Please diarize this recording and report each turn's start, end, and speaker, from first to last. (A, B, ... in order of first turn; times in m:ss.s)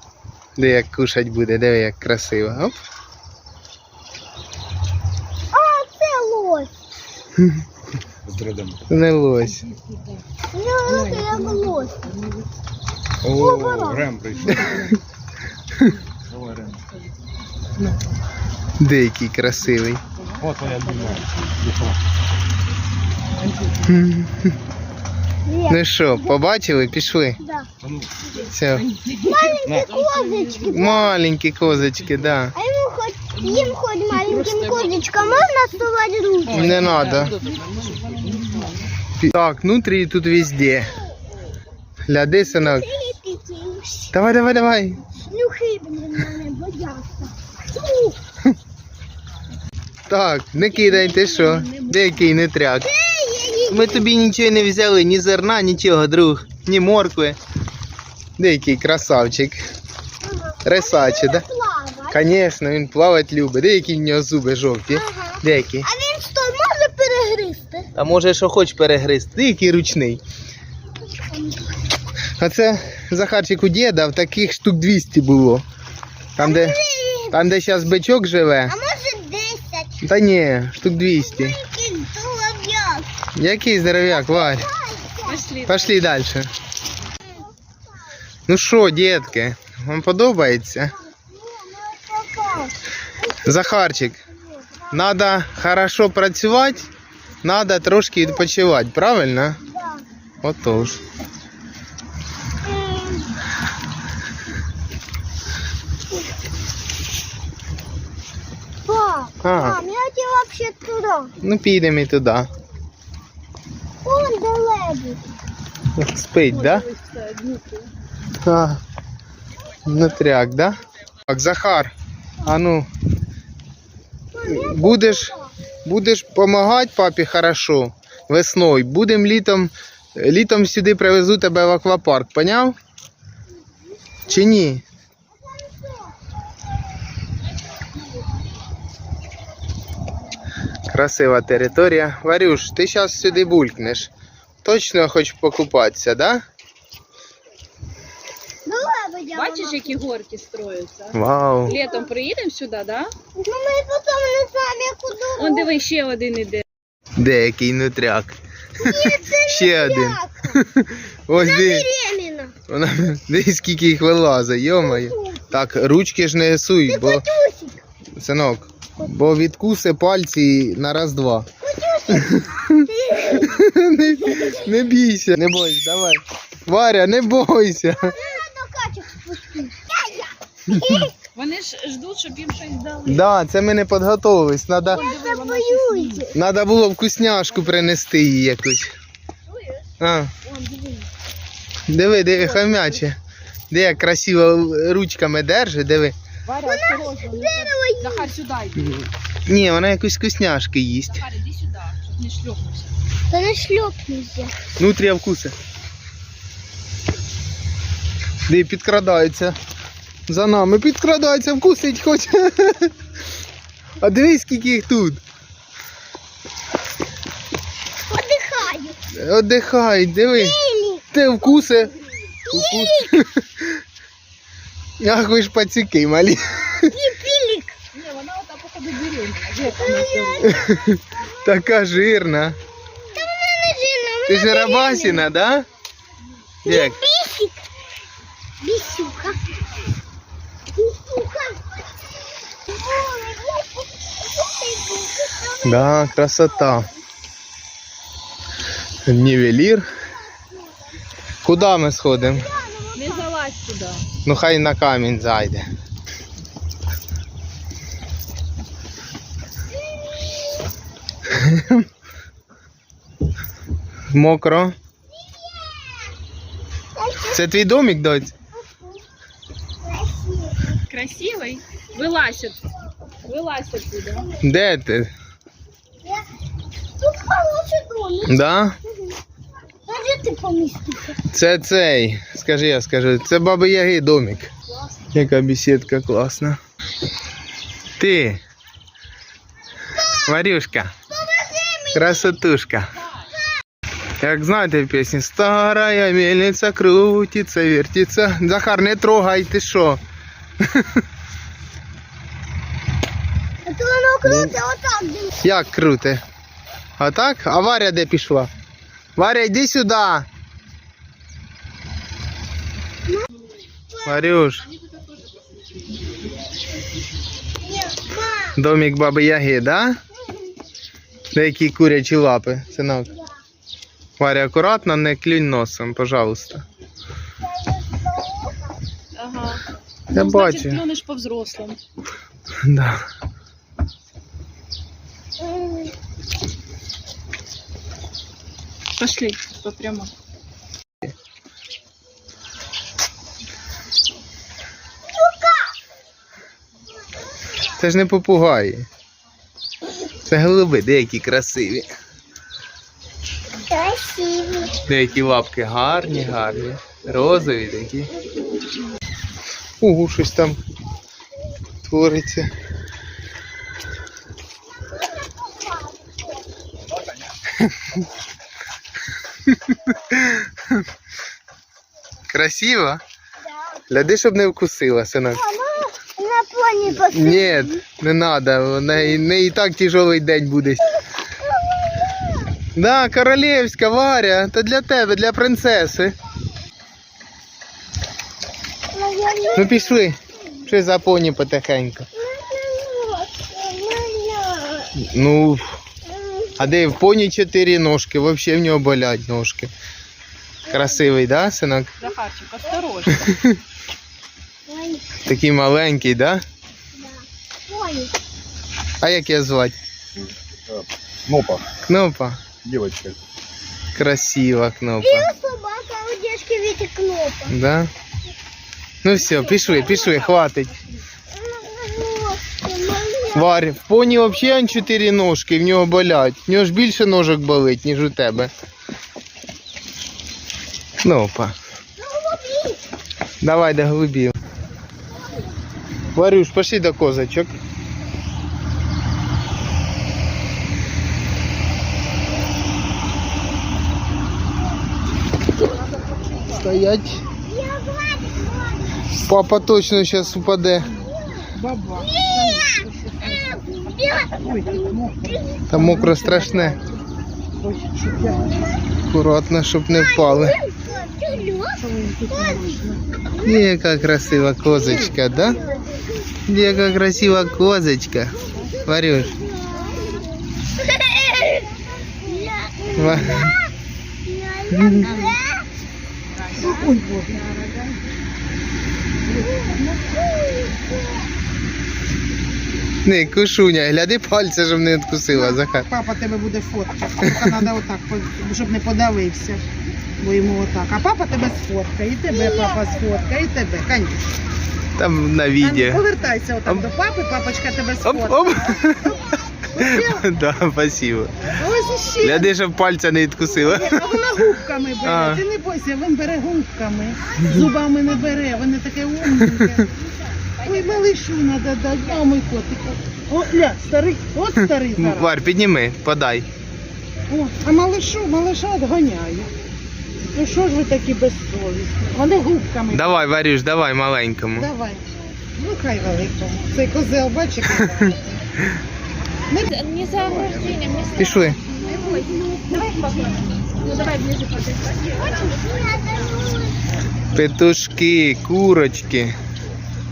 0:00.6-0:02.8 A
0:05.5-0:06.7 B
0:07.4-0:07.6 A
0:08.2-0:08.9 C
0:08.9-0:09.7 A
0:10.5-0:12.1 B
0:11.0-0:11.3 D
0:13.2-0:15.0 C
0:13.3-0:14.9 B
0:16.3-0:16.8 C
0:18.8-0:20.0 A
0:20.4-0:22.0 C
0:20.6-0:21.2 D
0:23.4-0:23.7 D
0:23.8-0:24.5 A
0:25.5-0:26.4 B
0:25.7-0:27.4 A
0:27.4-0:27.7 B
0:28.4-0:28.9 A
0:29.1-0:31.2 B
0:29.6-0:30.3 C
0:30.7-0:32.6 A
0:32.5-0:36.8 B
0:34.2-0:35.4 E
0:36.5-0:37.4 A
0:37.4-0:38.7 D
0:39.2-0:41.0 A
0:42.1-0:42.9 A
0:42.4-0:44.1 B
0:44.1-0:45.0 A
0:45.2-0:48.2 B
0:50.1-0:52.9 A
0:50.7-0:52.4 E
0:52.8-0:54.1 B
0:53.7-0:57.4 A
0:58.4-0:59.6 A
1:00.2-1:02.3 B
1:00.6-1:01.4 A
1:02.1-1:05.9 A
1:04.9-1:07.9 B
1:08.0-1:10.2 A
1:11.3-1:11.6 B
1:12.4-1:15.6 A
1:16.4-1:16.8 A
1:16.4-1:17.4 B
1:17.3-1:18.8 A
1:18.7-1:20.0 B
1:20.0-1:21.6 A
1:21.1-1:23.1 B
1:23.4-1:24.7 A
1:23.9-1:25.5 B
1:25.2-1:26.0 E
1:25.7-1:26.5 A
1:27.2-1:27.8 B
1:28.5-1:31.0 A
1:31.0-1:32.8 B
1:33.3-1:33.5 B
1:33.4-1:34.2 A
1:34.4-1:35.0 B
1:34.9-1:36.9 A
1:37.4-1:39.6 A
1:39.7-1:40.0 B
1:40.4-1:41.0 A
1:42.6-1:43.4 B
1:48.8-1:51.3 B
1:49.4-1:49.8 A
1:51.4-1:52.5 A
1:54.0-1:55.3 B
1:56.0-1:56.9 A
1:56.5-1:57.9 E
1:58.4-1:58.8 A
1:59.8-2:01.9 A
2:02.4-2:02.9 A
2:04.3-2:05.5 B
2:04.4-2:12.8 A
2:14.3-2:14.8 A
2:15.4-2:16.3 B
2:20.9-2:24.1 A
2:24.6-2:26.4 A
2:28.7-2:30.0 B
2:29.4-2:33.1 E
2:31.1-2:31.7 A
2:31.7-2:32.1 B
2:33.4-2:35.7 B
2:35.4-2:36.6 E
2:37.2-2:41.9 A
2:38.8-2:40.6 B
2:41.3-2:42.6 B
2:42.7-2:47.2 A
2:44.8-2:45.4 B
2:46.8-2:47.8 B
2:48.2-2:51.5 A
2:51.6-2:54.7 B
2:52.2-2:58.3 A
2:58.0-3:01.2 B
3:00.7-3:01.0 A
3:01.3-3:03.3 E
3:03.1-3:05.0 A
3:04.9-3:06.3 E
3:04.9-3:06.4 B
3:06.3-3:08.9 A
3:10.0-3:10.3 A
3:10.4-3:11.1 E
3:11.9-3:13.2 A
3:12.3-3:13.0 E
3:13.7-3:16.2 A
3:16.5-3:19.1 E
3:16.6-3:18.4 B
3:19.5-3:21.2 A
3:21.1-3:22.9 E
3:23.3-3:24.6 B
3:24.8-3:25.6 A
3:28.5-3:29.6 A
3:30.3-3:32.9 A
3:34.0-3:35.2 A
3:38.1-3:39.0 B
3:39.1-3:40.6 A
3:40.3-3:41.1 B
3:41.1-3:41.9 A
3:41.7-3:42.0 E
3:42.4-3:43.3 B
3:42.5-3:43.8 A
3:45.0-3:47.0 A
3:46.8-3:47.8 B
3:47.9-3:50.6 E
3:49.6-3:51.5 B
3:50.4-3:52.6 A
3:53.1-3:55.3 B
3:54.3-3:55.7 A
3:56.6-3:57.0 A
3:56.6-3:57.6 B
3:58.6-3:59.5 B
4:00.8-4:06.0 B
4:05.6-4:06.9 A
4:09.0-4:09.9 A
4:10.0-4:10.8 B
4:11.4-4:12.5 A
4:12.2-4:13.3 B
4:12.9-4:14.0 E
4:14.2-4:15.6 A
4:19.7-4:20.7 B
4:21.3-4:21.9 A
4:24.1-4:24.8 A
4:25.2-4:26.2 B
4:27.0-4:27.4 B
4:27.3-4:28.3 A
4:29.8-4:30.8 B
4:30.9-4:32.6 E
4:33.3-4:34.3 E
4:34.4-4:35.1 A
4:37.0-4:39.2 B
4:38.3-4:38.8 A
4:39.8-4:41.2 B
4:41.2-4:44.5 A
4:45.1-4:46.6 A
4:48.0-4:48.4 A
4:50.1-4:51.0 A
4:51.1-4:52.3 B
4:51.9-4:52.9 A
4:54.2-5:00.0 A
5:00.6-5:01.0 A
5:03.6-5:05.3 B
5:04.2-5:04.6 A
5:05.4-5:06.2 A
5:07.0-5:08.5 A
5:09.2-5:10.3 A
5:14.0-5:14.7 A
5:17.6-5:18.6 B
5:18.6-5:20.0 A
5:21.3-5:23.1 A
5:24.2-5:26.6 A
5:27.4-5:28.7 B
5:29.2-5:31.8 E
5:30.1-5:30.8 A
5:32.6-5:33.0 A
5:35.4-5:35.9 B
5:39.0-5:40.1 E
5:45.1-5:45.7 B
5:47.8-5:48.9 A
5:50.2-5:51.9 A
5:53.6-5:54.8 B
5:54.8-5:58.1 A
5:59.8-6:00.6 A
6:01.8-6:02.5 A
6:04.9-6:06.4 B
6:07.6-6:08.0 A
6:09.5-6:10.9 A
6:12.3-6:13.0 A
6:13.9-6:15.4 A
6:15.3-6:17.8 B
6:17.0-6:21.0 A
6:21.4-6:22.6 B
6:22.8-6:26.2 A
6:28.9-6:30.1 B
6:29.6-6:32.1 A
6:32.2-6:34.9 B
6:35.0-6:35.8 A
6:36.0-6:36.6 B
6:36.6-6:39.7 A
6:40.7-6:41.1 B
6:40.7-6:41.9 A
6:42.0-6:43.3 E
6:43.2-6:43.6 A
6:44.7-6:45.1 B
6:45.2-6:46.4 A
6:46.9-6:48.2 B
6:49.0-6:49.8 A
6:50.7-6:51.7 C
6:51.9-6:52.4 A
6:52.6-6:53.2 C
6:54.0-6:55.3 A
6:55.0-6:57.6 B
6:57.5-6:57.9 A
6:59.0-7:00.7 A
6:59.2-7:00.7 E
7:01.3-7:03.7 B
7:03.3-7:08.5 A
7:11.0-7:11.6 A
7:12.0-7:12.8 B
7:13.4-7:14.4 A
7:15.2-7:15.5 B
7:16.2-7:17.6 A
7:26.6-7:27.2 A
7:27.2-7:29.4 B
7:29.2-7:30.9 A
7:30.9-7:35.7 B
7:31.5-7:33.6 D
7:34.3-7:36.9 D
7:35.7-7:36.8 A
7:37.6-7:38.6 D
7:38.3-7:38.8 B
7:39.1-7:40.6 A
7:39.9-7:42.7 B
7:41.8-7:43.0 D
7:43.4-7:45.6 A
7:44.8-7:45.1 D
7:44.8-7:46.6 B
7:46.5-7:49.4 A
7:48.4-7:51.7 B
7:52.2-7:53.7 B
7:53.0-7:53.6 A
7:54.2-7:55.7 B
7:54.7-7:55.2 A
7:56.3-7:58.0 E
7:56.6-7:57.5 D
7:59.3-8:00.0 D
7:59.4-8:01.3 B
8:03.0-8:05.9 A
8:05.3-8:09.6 D
8:07.3-8:07.5 A
8:10.2-8:14.2 D
8:12.3-8:13.1 B
8:15.0-8:16.0 A
8:15.6-8:18.8 D
8:18.0-8:21.6 A
8:19.8-8:20.2 D
8:21.5-8:22.5 D
8:22.2-8:24.3 A
8:23.7-8:29.9 D
8:25.0-8:25.4 A
8:27.4-8:27.7 A
8:29.3-8:29.7 A
8:30.0-8:31.1 E
8:30.6-8:35.3 D
8:35.0-8:36.5 A
8:37.3-8:39.5 D
8:40.3-8:43.2 D
8:42.9-8:44.7 A
8:44.5-8:48.4 D
8:49.5-8:49.8 D
8:49.7-8:51.3 E
8:51.2-8:51.6 A
8:51.8-8:55.4 E
8:55.1-8:56.8 B
8:57.3-8:59.4 A